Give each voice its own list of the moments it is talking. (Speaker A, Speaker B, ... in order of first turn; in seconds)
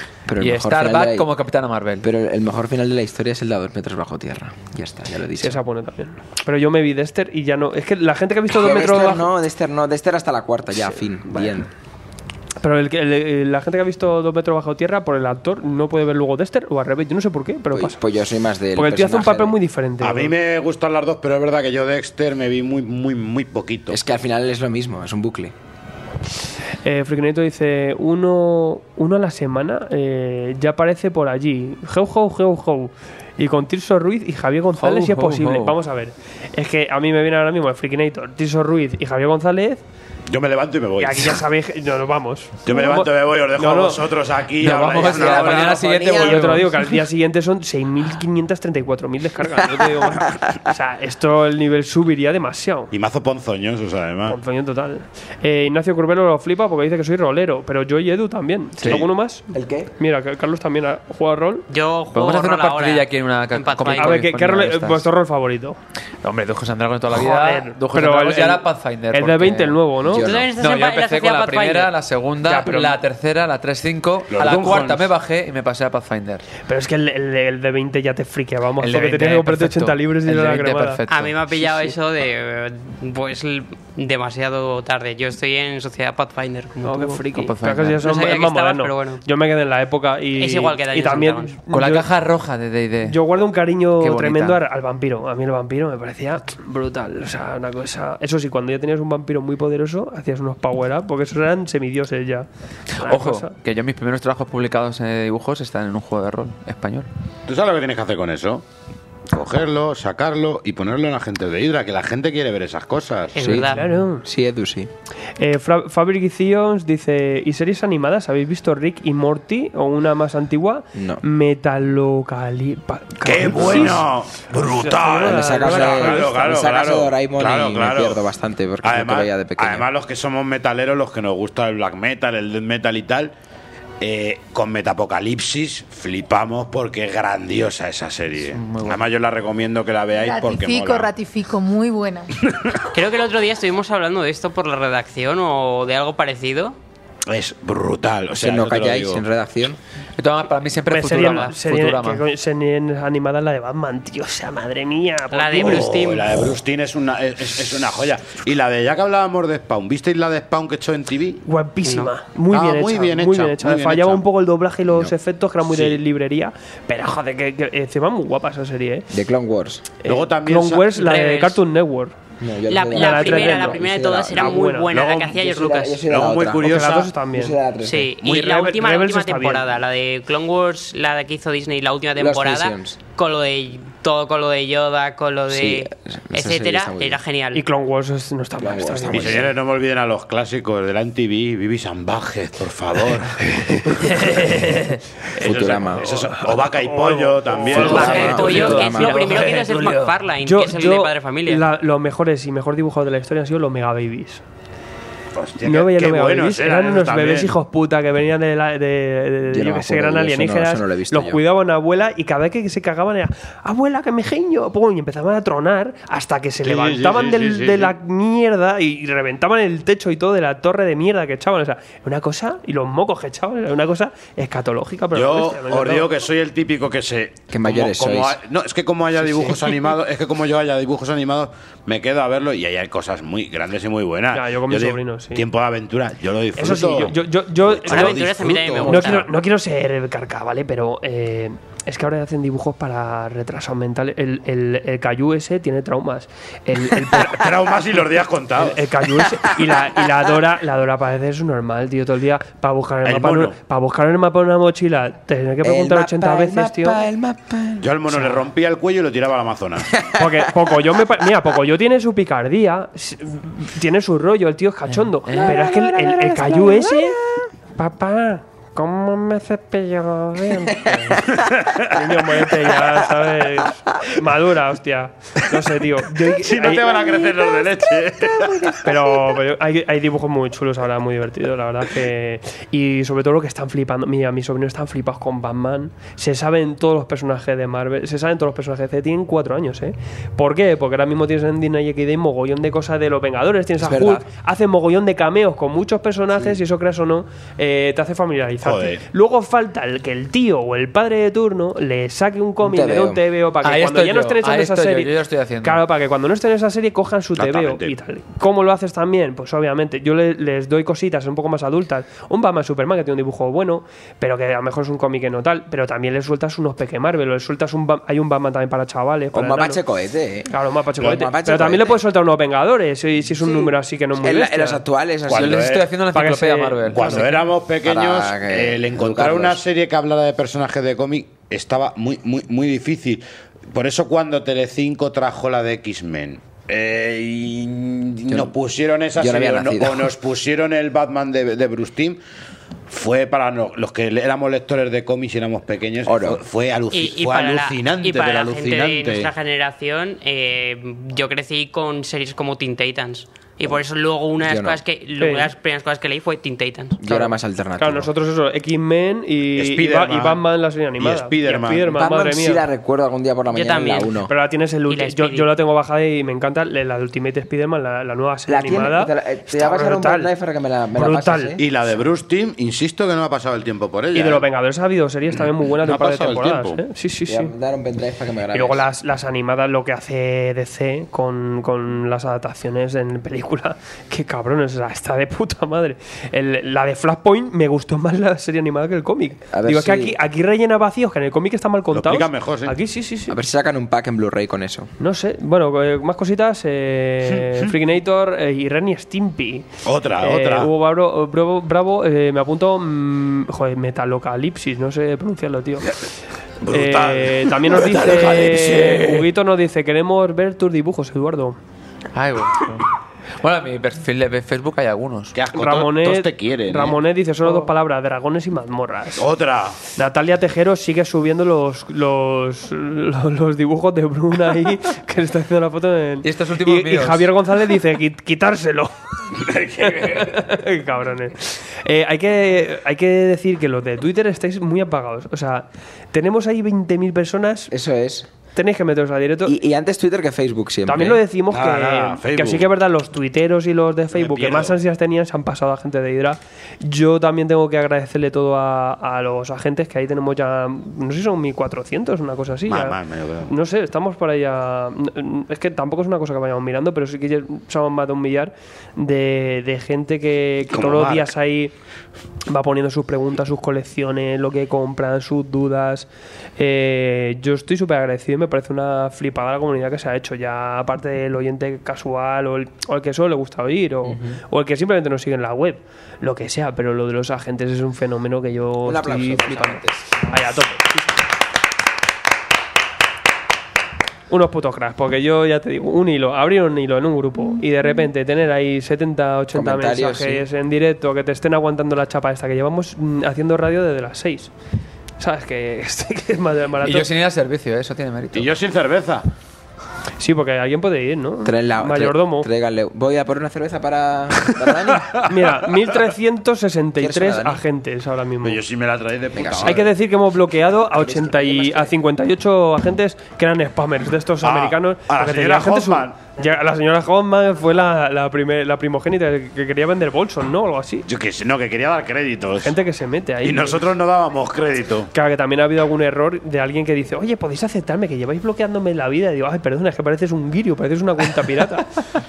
Speaker A: 0.3-1.3, 2.0-5.6, 8.5-11.7, 17.7-19.6, 23.9-25.5, 45.0-46.4, 59.5-59.9, 70.0-70.5, 113.4-114.9, 120.9-121.2, 125.2-129.9, 148.4-149.8, 169.1-169.9, 172.4-174.6, 175.3-178.1, 182.2-183.0, 185.5-187.2, 188.6-189.5, 195.4-196.1, 197.8-199.4, 209.5-211.4, 227.5-228.4, 255.6-257.9, 260.0-260.3, 265.3-267.4, 278.3-278.8, 293.8-294.3, 302.6-303.2, 319.3-322.0, 323.4-325.7, 327.8-329.6, 339.1-340.1, 346.1-346.4, 354.4-354.8, 357.0-358.1, 361.9-364.3, 368.5-371.7, 377.3-378.9, 389.5-390.2, 393.3-394.9, 437.7-438.3, 439.4-441.2, 474.1-474.4, 478.8-480.0, 489.5-490.4, 501.4-505.1, 507.0-507.6, 509.4-509.8, 510.9-511.9
Speaker B: 0.4-2.1, 34.8-35.8, 44.6-46.9, 62.1-65.1, 66.2-69.8, 70.6-76.4, 78.8-81.9, 87.3-88.0, 91.7-93.2, 94.0-94.6, 103.0-107.1, 138.5-139.0, 150.2-152.2, 265.1-265.5, 303.6-305.9, 325.3-327.2, 412.1-412.9, 413.4-415.4, 426.2-427.3, 496.8-498.5
Speaker C: 5.4-9.3, 12.6-18.0, 18.8-20.3, 26.8-39.8, 41.0-44.0, 45.3-45.6, 46.2-52.9, 54.3-61.7, 64.0-65.8, 67.1-70.3, 72.5-73.0, 76.7-81.0, 86.8-92.1, 93.0-103.5, 113.7-114.2, 115.4-126.5, 150.9-156.0, 161.5-169.1, 170.0-172.2, 172.9-173.8, 174.3-174.9, 176.6-177.6, 178.2-179.7, 187.5-189.5, 193.6-194.8, 195.4-199.8, 200.4-204.4, 205.6-226.1, 229.2-229.5, 234.3-235.4, 236.6-247.5, 248.6-257.0, 260.1-267.2, 267.8-277.1, 278.8-319.8, 320.5-324.8, 326.1-327.4, 355.2-355.5, 357.1-362.6, 364.3-370.3, 370.9-371.6, 374.1-377.5, 378.5-393.4, 395.0-399.7, 400.2-405.9, 406.7-411.6, 415.5-419.3, 419.9-437.7, 438.6-439.6, 440.9-461.7, 462.5-481.2, 484.3-494.5, 495.2-497.1, 500.2-502.5, 505.2-508.6, 509.6-521.1, 522.6-523.8, 525.1-532.0
Speaker D: 20.0-24.0, 40.3-41.4, 42.6-46.4, 52.9-54.4, 74.3-75.1, 107.5-108.6, 109.3-113.4, 123.2-128.2, 128.8-133.3, 134.0-141.1, 142.4-142.8, 147.3-149.2, 155.6-161.4, 162.5-164.2, 165.7-166.0, 170.1-171.0, 174.9-175.3, 176.1-177.1, 189.1-193.9, 195.4-198.9, 205.3-207.6, 216.6-217.9, 225.1-239.2, 247.1-248.9, 253.1-253.6, 257.8-260.0, 271.4-272.6, 276.3-278.8, 298.6-299.0, 307.4-307.9, 325.3-325.9, 326.8-342.2, 342.9-349.3, 359.6-360.4, 361.0-361.9, 371.6-374.5, 375.4-376.8, 391.9-392.8, 397.4-397.7, 399.9-400.7, 406.6-409.3, 415.3-417.0, 419.2-419.8, 429.4-430.4, 441.5-442.7, 444.1-444.8, 452.7-453.5, 460.7-461.3, 498.3-499.3, 505.0-505.3, 508.4-509.9, 514.4-516.2, 521.1-522.8, 523.4-525.1
Speaker E: 61.7-64.2, 70.2-71.9, 81.1-87.3, 88.0-89.2, 90.4-91.6, 113.3-113.8, 142.9-146.8, 155.3-156.4, 161.8-162.1, 171.0-171.6, 172.7-176.0, 177.8-187.6, 197.7-201.6, 237.9-239.3, 346.9-357.0, 363.5-364.1, 364.9-365.5
Speaker F: 140.1-142.3